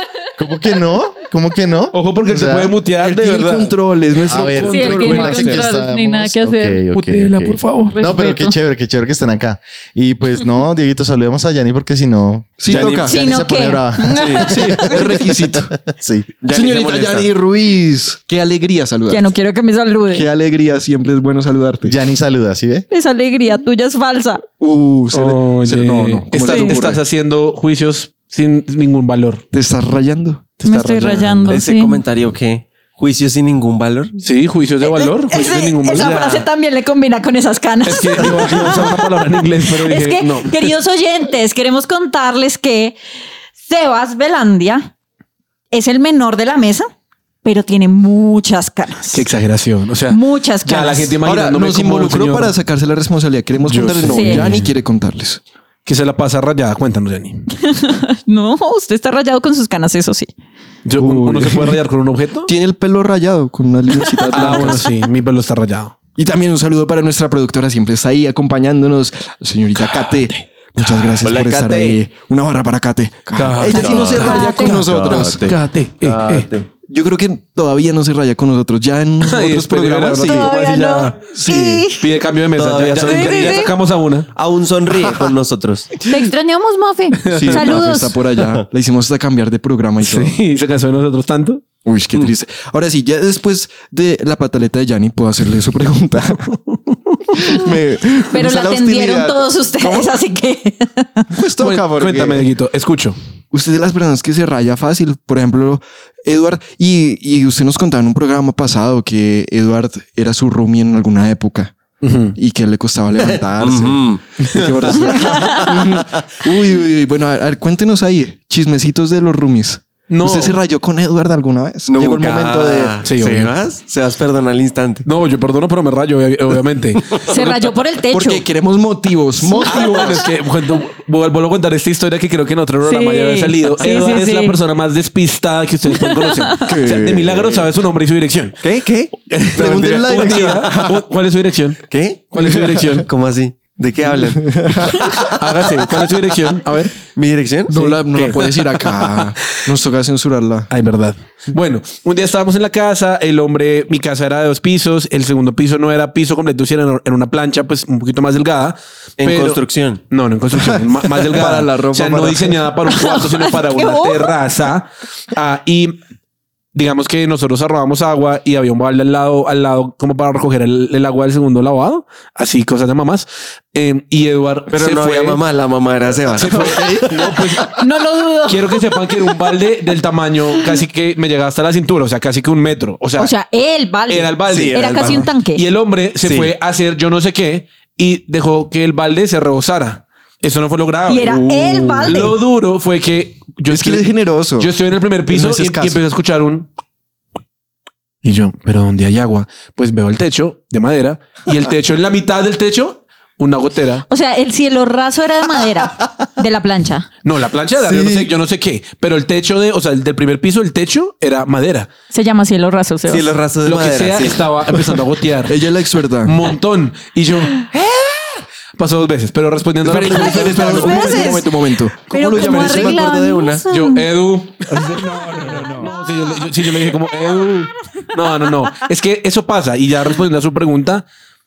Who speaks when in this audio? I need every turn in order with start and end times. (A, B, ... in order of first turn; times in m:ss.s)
0:00.4-0:02.7 A
0:01.9-0:03.7 B
0:03.0-0:05.7 C
0:04.3-0:16.3 A
0:04.6-0:06.8 D
0:06.9-0:08.0 B
0:07.9-0:08.6 D
0:12.6-0:13.2 C
0:13.0-0:15.0 D
0:14.2-0:14.5 E
0:14.4-0:15.7 C
0:16.4-0:17.3 E
0:16.5-0:19.3 C
0:19.1-0:20.3 D
0:20.1-0:22.0 C
0:21.8-0:22.9 A
0:22.9-0:24.4 D
0:24.6-0:27.0 C
0:25.1-0:29.4 B
0:26.4-0:26.7 D
0:29.5-0:30.5 C
0:30.6-0:31.6 B
0:30.6-0:32.0 D
0:31.5-0:34.2 E
0:34.2-0:36.3 B
0:34.8-0:43.0 D
0:35.9-0:36.5 E
0:37.8-0:40.7 B
0:43.6-0:44.9 D
0:45.7-0:46.9 D
0:47.4-0:49.3 D
0:49.1-0:52.5 B
0:50.1-0:51.2 D
0:51.2-0:55.4 C
0:53.6-0:54.7 B
0:54.1-0:54.5 D
0:55.9-0:57.4 B
0:57.6-1:00.3 D
1:00.8-1:02.5 B
1:01.0-1:01.8 C
1:02.5-1:04.9 C
1:04.3-1:04.8 D
1:04.3-1:06.0 B
1:06.2-1:15.5 C
1:09.8-1:10.3 B
1:10.8-1:12.0 E
1:13.4-1:16.5 B
1:13.6-1:16.7 E
1:13.8-1:14.7 D
1:16.9-1:20.5 C
1:19.2-1:24.3 B
1:20.2-1:22.1 D
1:22.6-1:23.7 E
1:23.0-1:23.7 D
1:24.3-1:25.9 E
1:26.0-1:28.2 D
1:27.2-1:27.7 B
1:27.3-1:30.4 C
1:30.0-1:31.6 B
1:31.8-1:36.6 C
1:36.5-1:36.8 B
1:37.3-1:40.2 C
1:38.3-1:41.3 D
1:41.3-1:42.5 C
1:41.6-1:43.2 B
1:43.5-1:51.8 C
1:52.0-1:52.4 B
1:52.4-2:03.0 C
1:53.2-1:54.2 E
1:54.6-1:55.1 B
1:55.0-1:55.3 D
1:55.3-1:56.1 E
2:00.1-2:00.6 B
2:01.9-2:05.1 E
2:03.0-2:03.5 B
2:05.0-2:07.4 B
2:07.3-2:08.4 D
2:08.1-2:10.2 C
2:09.6-2:18.6 B
2:09.8-2:10.2 E
2:12.8-2:14.6 D
2:16.0-2:16.7 D
2:16.6-2:17.6 C
2:18.6-2:20.8 E
2:19.3-2:23.1 B
2:19.5-2:21.0 C
2:21.9-2:25.5 E
2:22.4-2:22.9 C
2:24.1-2:25.1 C
2:25.4-2:27.0 B
2:27.2-2:28.4 E
2:27.7-2:30.7 C
2:27.8-2:28.4 B
2:29.0-2:29.3 B
2:30.7-2:46.0 B
2:39.2-2:40.0 E
2:40.6-2:42.7 C
2:42.9-2:44.3 D
2:46.7-2:55.4 B
2:54.7-2:57.4 E
2:56.4-2:57.8 B
2:56.5-2:56.9 C
2:57.8-2:58.8 D
2:58.5-3:03.3 B
3:03.2-3:05.6 D
3:04.1-3:14.0 B
3:04.5-3:05.2 E
3:06.2-3:06.5 E
3:11.1-3:12.4 D
3:13.7-3:14.7 C
3:14.6-3:16.7 B
3:15.3-3:16.0 C
3:18.2-3:24.1 B
3:24.1-3:27.1 D
3:27.2-3:31.9 B
3:27.8-3:28.3 C
3:32.1-3:33.3 D
3:33.1-3:34.9 E
3:33.6-3:35.6 B
3:35.5-3:36.4 C
3:36.2-3:37.7 B
3:37.7-3:38.2 E
3:38.8-3:41.2 B
3:39.8-3:43.2 C
3:40.0-3:44.1 D
3:42.1-3:43.6 E
3:43.7-3:51.0 B
3:44.8-3:45.9 C
3:46.0-3:47.5 D